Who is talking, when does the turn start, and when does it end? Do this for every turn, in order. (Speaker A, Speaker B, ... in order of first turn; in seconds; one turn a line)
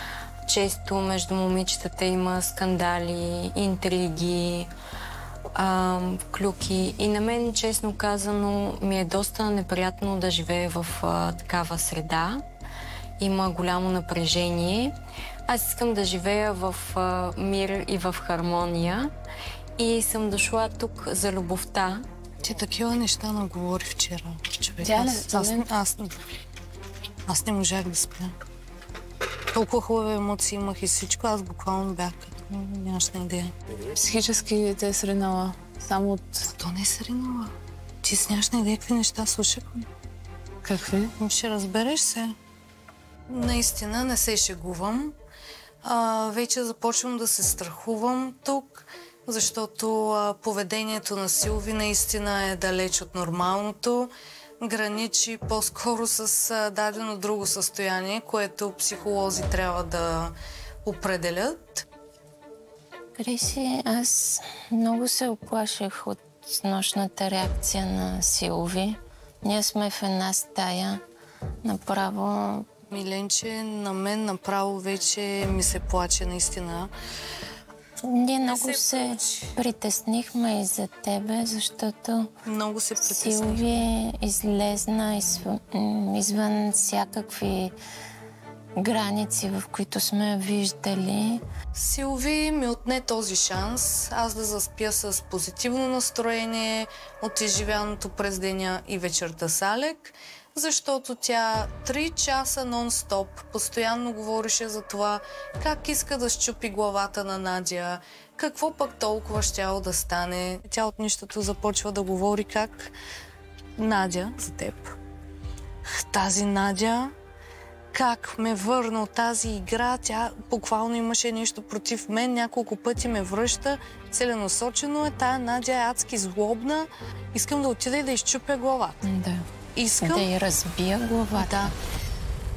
Speaker A: 0.4-4.7
Speaker A: 5.5-12.4
Speaker A: 13.2-14.9
Speaker A: 15.5-19.1
Speaker A: 19.8-22.0
Speaker B: 22.4-26.1
Speaker C: 24.8-25.6
Speaker B: 27.3-28.3
Speaker B: 29.5-33.5
Speaker C: 33.9-36.5
Speaker B: 36.5-39.9
Speaker C: 40.6-41.1
Speaker B: 41.2-42.4
Speaker B: 43.3-45.1
Speaker B: 45.8-60.3
Speaker B: 60.8-61.9
Speaker D: 63.1-71.0
Speaker D: 71.6-72.7
Speaker B: 72.9-76.9
Speaker D: 78.0-82.3
Speaker B: 78.5-79.5
Speaker B: 82.4-83.7
Speaker D: 83.0-87.7
Speaker D: 88.8-91.4
Speaker B: 91.7-112.9
Speaker B: 113.8-115.0
Speaker B: 115.8-117.1
Speaker B: 117.9-129.0
Speaker D: 129.0-129.5
Speaker B: 129.8-130.3
Speaker D: 130.0-131.8
Speaker B: 131.3-131.7